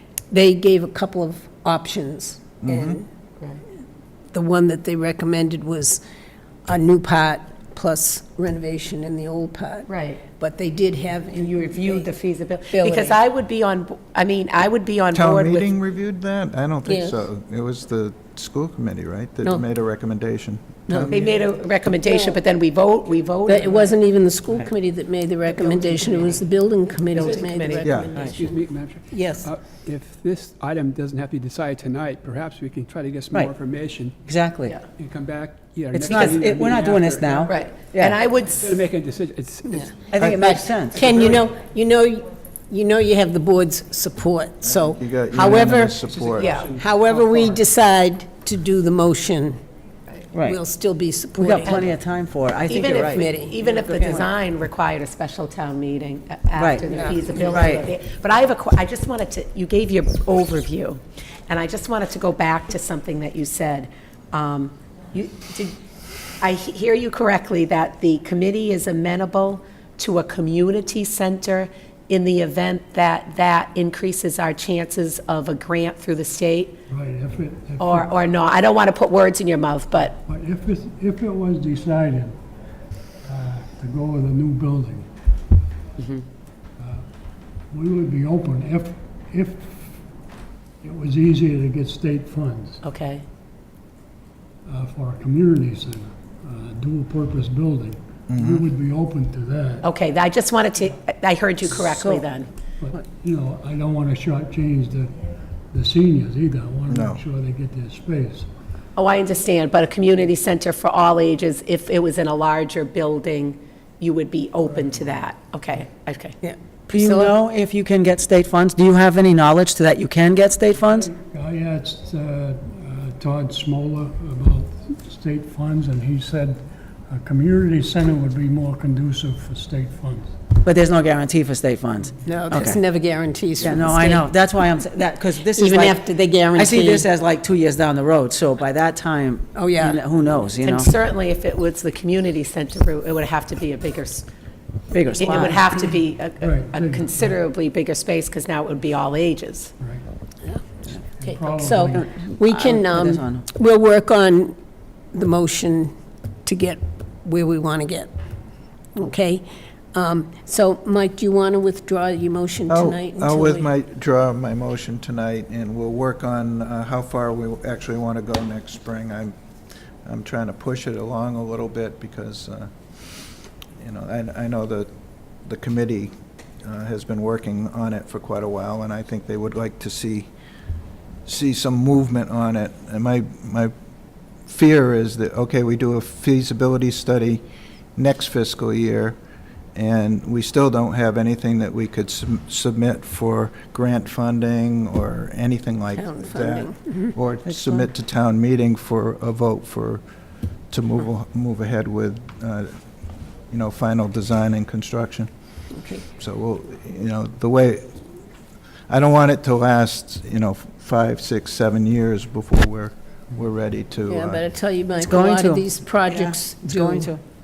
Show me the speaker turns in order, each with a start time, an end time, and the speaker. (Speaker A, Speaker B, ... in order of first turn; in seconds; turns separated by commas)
Speaker A: 0.3-3.1, Speaker B: 2.6-3.0, Speaker A: 4.3-6.0, Speaker A: 6.7-12.1, Speaker C: 9.9-10.2, Speaker C: 11.3-15.7, Speaker A: 12.7-13.2, Speaker B: 15.1-21.3, Speaker A: 16.9-17.2, Speaker C: 21.1-23.9, Speaker A: 22.1-22.4, Speaker A: 23.5-28.0, Speaker C: 25.6-26.4, Speaker C: 27.1-28.6, Speaker B: 27.8-28.2, Speaker D: 28.2-34.2, Speaker A: 29.1-29.5, Speaker E: 34.3-34.8, Speaker D: 34.9-37.7, Speaker E: 35.9-38.2, Speaker C: 37.5-38.8, Speaker D: 38.4-41.5, Speaker E: 40.1-41.1, Speaker A: 40.9-46.0, Speaker B: 44.6-46.6, Speaker D: 45.5-47.6, Speaker C: 46.4-46.7, Speaker A: 46.8-49.6, Speaker E: 50.3-50.6, Speaker A: 50.4-51.9, Speaker E: 51.4-54.3, Speaker C: 51.6-51.9, Speaker C: 52.7-65.8, Speaker A: 53.0-54.2, Speaker E: 56.6-56.9, Speaker E: 57.4-57.9, Speaker C: 66.4-76.8, Speaker F: 76.9-78.1, Speaker C: 77.8-80.2, Speaker F: 80.2-82.4, Speaker F: 83.2-85.1, Speaker C: 86.0-86.2, Speaker F: 86.8-87.0, Speaker F: 87.7-90.0, Speaker F: 90.8-92.8, Speaker C: 92.8-93.2, Speaker F: 94.7-99.9, Speaker B: 98.3-98.7, Speaker C: 99.8-102.5, Speaker E: 101.9-102.2, Speaker F: 102.8-105.2, Speaker F: 105.7-108.5, Speaker B: 106.9-107.2, Speaker C: 109.0-116.4, Speaker A: 116.4-117.3, Speaker E: 116.9-121.1, Speaker F: 120.9-130.3, Speaker E: 130.6-132.8, Speaker A: 132.2-134.3, Speaker E: 133.6-140.9, Speaker A: 135.5-137.1, Speaker A: 139.6-140.0, Speaker C: 140.6-144.3, Speaker E: 144.9-145.6, Speaker C: 145.2-149.7, Speaker F: 145.7-147.4, Speaker F: 149.8-150.1, Speaker F: 151.2-152.2, Speaker A: 151.5-154.6, Speaker E: 151.9-153.4, Speaker A: 155.1-155.9, Speaker A: 156.4-158.1, Speaker A: 158.9-163.7, Speaker B: 162.7-169.3, Speaker B: 170.1-172.8, Speaker B: 173.8-174.9, Speaker B: 175.4-176.1, Speaker B: 176.6-180.3, Speaker B: 181.3-183.7, Speaker B: 184.5-187.4, Speaker B: 188.0-189.2, Speaker B: 189.8-200.0, Speaker A: 195.9-197.2, Speaker E: 197.4-197.9, Speaker B: 200.7-202.7, Speaker B: 203.5-205.3, Speaker A: 205.7-206.0, Speaker B: 206.1-208.0, Speaker B: 208.9-214.4, Speaker A: 214.1-217.1, Speaker E: 214.9-217.2